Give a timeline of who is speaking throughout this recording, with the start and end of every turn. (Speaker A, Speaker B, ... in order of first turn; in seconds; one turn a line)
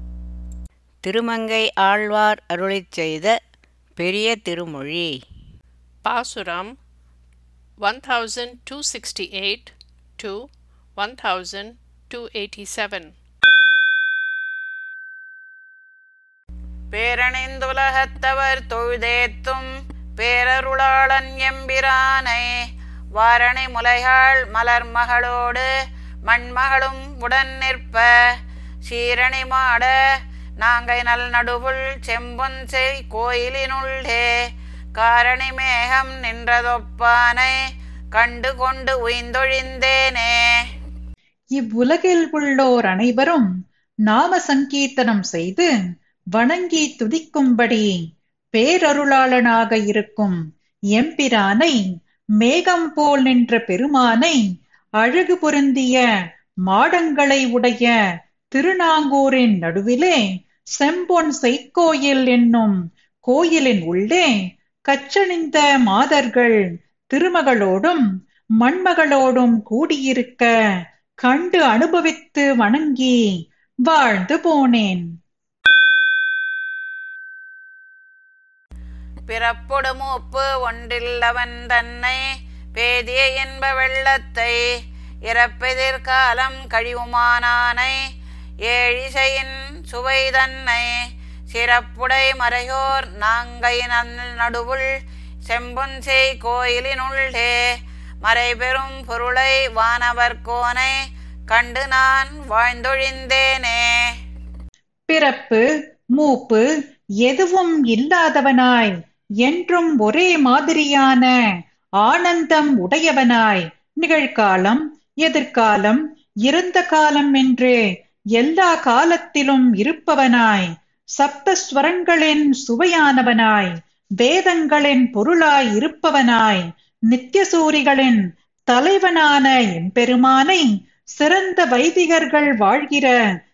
Speaker A: 1.0-3.4
Speaker A: 4.0-5.2
Speaker B: 6.0-6.8
Speaker B: 7.8-13.1
Speaker C: 16.9-19.7
Speaker C: 20.2-22.6
Speaker C: 23.1-25.7
Speaker C: 26.3-28.1
Speaker C: 28.9-29.9
Speaker C: 30.6-34.3
Speaker C: 35.0-37.5
Speaker C: 38.1-40.4
Speaker D: 41.6-43.5
Speaker D: 44.1-45.7
Speaker D: 46.4-47.9
Speaker D: 48.5-50.4
Speaker D: 50.9-51.8
Speaker D: 52.4-54.4
Speaker D: 55.0-56.0
Speaker D: 56.7-57.9
Speaker D: 58.5-60.2
Speaker D: 60.8-64.3
Speaker D: 64.9-66.6
Speaker D: 67.1-68.0
Speaker D: 68.6-70.5
Speaker D: 71.2-73.2
Speaker D: 73.9-75.1
Speaker C: 79.3-82.2
Speaker C: 82.8-84.6
Speaker C: 85.3-88.0
Speaker C: 88.7-90.9
Speaker C: 91.5-94.8
Speaker C: 95.5-97.6
Speaker C: 98.2-101.0
Speaker C: 101.5-103.9
Speaker D: 105.1-105.6
Speaker D: 106.2-106.6
Speaker D: 107.2-111.3
Speaker D: 112.0-117.8
Speaker D: 118.3-133.2